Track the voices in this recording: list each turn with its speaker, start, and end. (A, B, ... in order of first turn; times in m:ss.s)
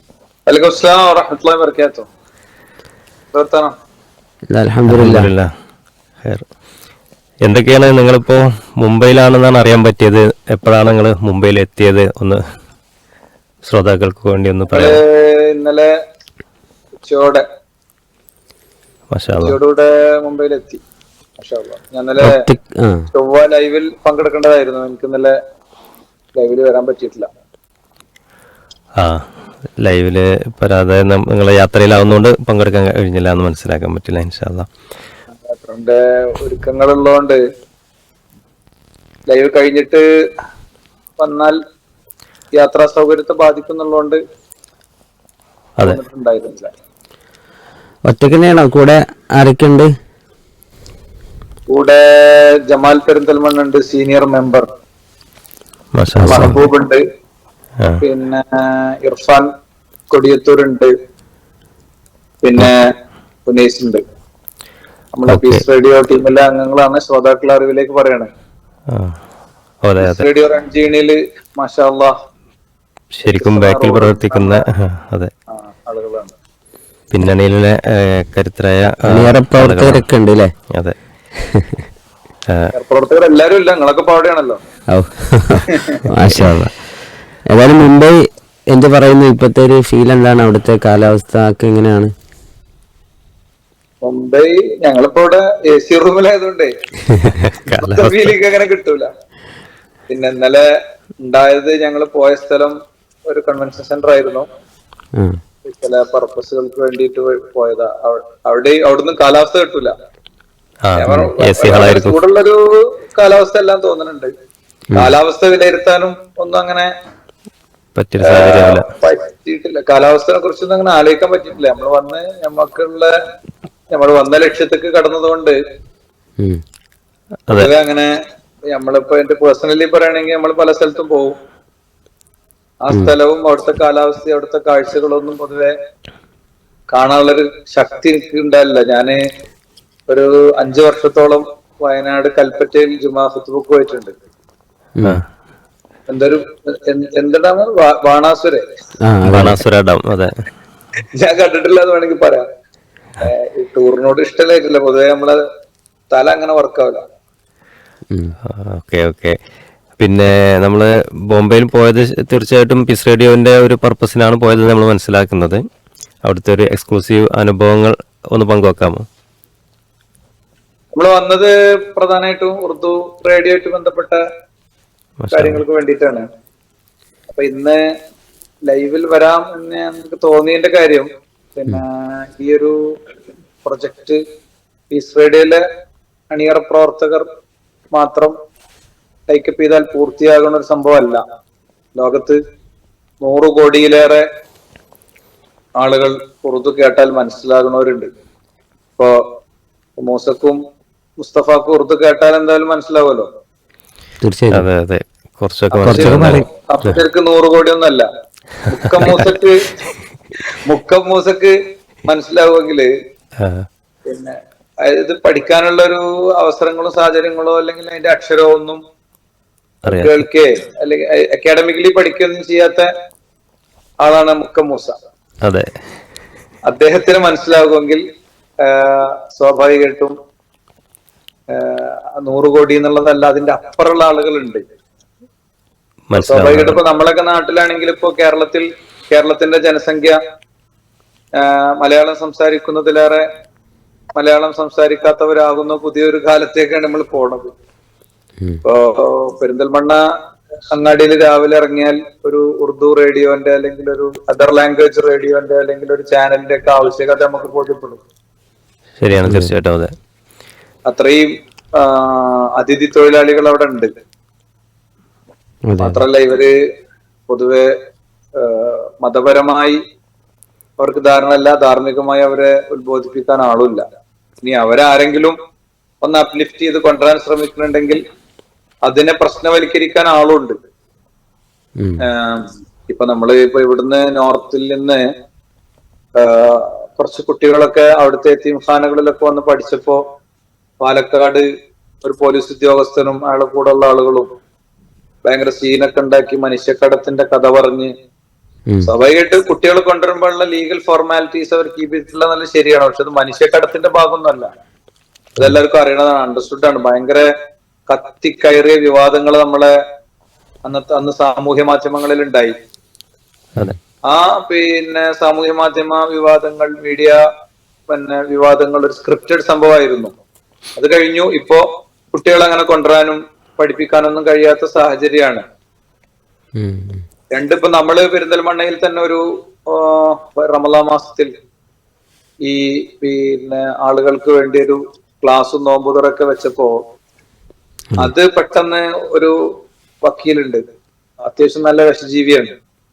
0:00.5-0:02.0 A
0:03.3-0:03.7 A
0:04.5-0:05.3 B
0:04.9-0:05.5 C
0:07.4-0:12.4 C
0:13.7-0:15.0 C
0:14.7-0:15.9 A
0:17.0-0:17.4 A
0:19.1-0:19.6 C
0:19.4-0:20.8 A
0:21.4-0:22.3 A
0:22.2-0:23.0 B
0:23.2-0:25.4 A
0:26.4-0:27.3 A
0:29.8-0:34.7 C
0:35.5-0:37.4 A
0:39.3-0:40.0 A
0:41.2-0:41.6 A
0:42.6-0:44.2 A
0:45.8-0:46.7 A
0:48.1-0:49.9 B
0:51.7-0:54.7 A
0:56.0-0:56.6 C
0:56.2-0:56.5 B
0:56.3-0:57.0 A
0:58.0-0:59.5 A
1:00.1-1:00.9 A
1:02.4-1:02.9 A
1:03.5-1:04.0 A
1:05.1-1:08.3 A
1:05.3-1:05.6 C
1:09.8-1:10.2 C
1:10.0-1:12.1 A
1:13.1-1:15.3 C
1:13.3-1:14.6 A
1:15.5-1:16.3 A
1:17.1-1:20.0 C
1:19.1-1:20.5 B
1:22.7-1:24.6 A
1:24.9-1:26.7 B
1:26.4-1:26.6 C
1:27.5-1:32.1 B
1:34.0-1:36.7 A
1:37.4-1:38.3 C
1:37.8-1:39.1 A
1:40.1-1:40.6 A
1:41.2-1:42.7 A
1:43.3-1:44.4 A
1:45.7-1:49.9 A
1:50.8-1:52.2 C
1:51.0-1:54.3 A
1:55.0-1:56.9 A
1:58.0-1:58.9 C
1:58.3-2:03.1 A
2:03.9-2:05.6 A
2:07.5-2:08.1 A
2:08.7-2:11.4 A
2:12.8-2:15.7 A
2:16.9-2:19.2 A
2:20.1-2:24.1 A
2:26.1-2:28.6 A
2:29.0-2:29.6 B
2:29.3-2:30.3 C
2:31.2-2:32.4 A
2:33.2-2:35.4 A
2:36.1-2:37.0 A
2:38.5-2:39.3 C
2:40.0-2:45.6 C
2:46.2-2:49.0 C
2:50.9-2:54.2 A
2:55.2-2:55.6 C
2:55.3-2:56.2 A
2:57.3-2:57.8 A
2:58.7-3:02.7 A
3:03.6-3:04.2 A
3:04.9-3:05.6 A
3:06.3-3:07.2 A
3:07.9-3:08.4 A
3:09.3-3:11.2 A
3:12.0-3:12.4 A
3:13.2-3:14.2 A
3:15.8-3:18.1 A
3:20.0-3:20.6 A
3:21.2-3:23.3 A
3:24.2-3:24.7 B
3:24.5-3:27.0 C
3:25.8-3:28.1 A
3:25.8-3:26.5 B
3:28.7-3:29.7 A
3:30.6-3:31.5 A
3:32.1-3:32.9 A
3:33.4-3:33.7 C
3:34.1-3:38.8 A
3:39.9-3:42.9 A
3:39.9-3:40.2 C
3:44.0-3:45.0 A
3:45.4-3:45.7 C
3:46.7-3:48.0 A
3:48.6-3:50.1 A
3:51.5-3:54.6 A
3:56.1-3:56.8 C
3:56.2-4:00.2 A
4:01.4-4:03.2 A
4:04.2-4:07.5 A
4:08.6-4:10.0 A
4:10.7-4:18.0 A
4:19.0-4:19.9 C
4:19.2-4:19.5 B
4:20.9-4:23.9 A
4:25.7-4:26.0 B
4:25.8-4:26.5 A
4:27.3-4:27.7 A
4:28.4-4:29.8 A
4:30.8-4:33.8 A
4:34.4-4:35.4 A
4:36.0-4:38.0 A
4:38.9-4:40.6 A
4:42.1-4:45.0 A
4:46.2-4:50.0 A
4:50.8-4:51.4 A
4:52.0-4:54.3 A
4:55.2-4:57.9 A
4:58.8-5:04.5 A
5:05.4-5:07.3 A
5:07.9-5:09.7 A
5:10.6-5:12.5 A
5:14.1-5:17.2 A
5:17.9-5:20.1 A
5:20.8-5:25.4 A
5:26.6-5:27.0 B
5:27.3-5:31.3 A
5:32.5-5:36.8 A
5:38.0-5:39.3 A
5:40.0-5:40.6 A
5:41.3-5:42.5 A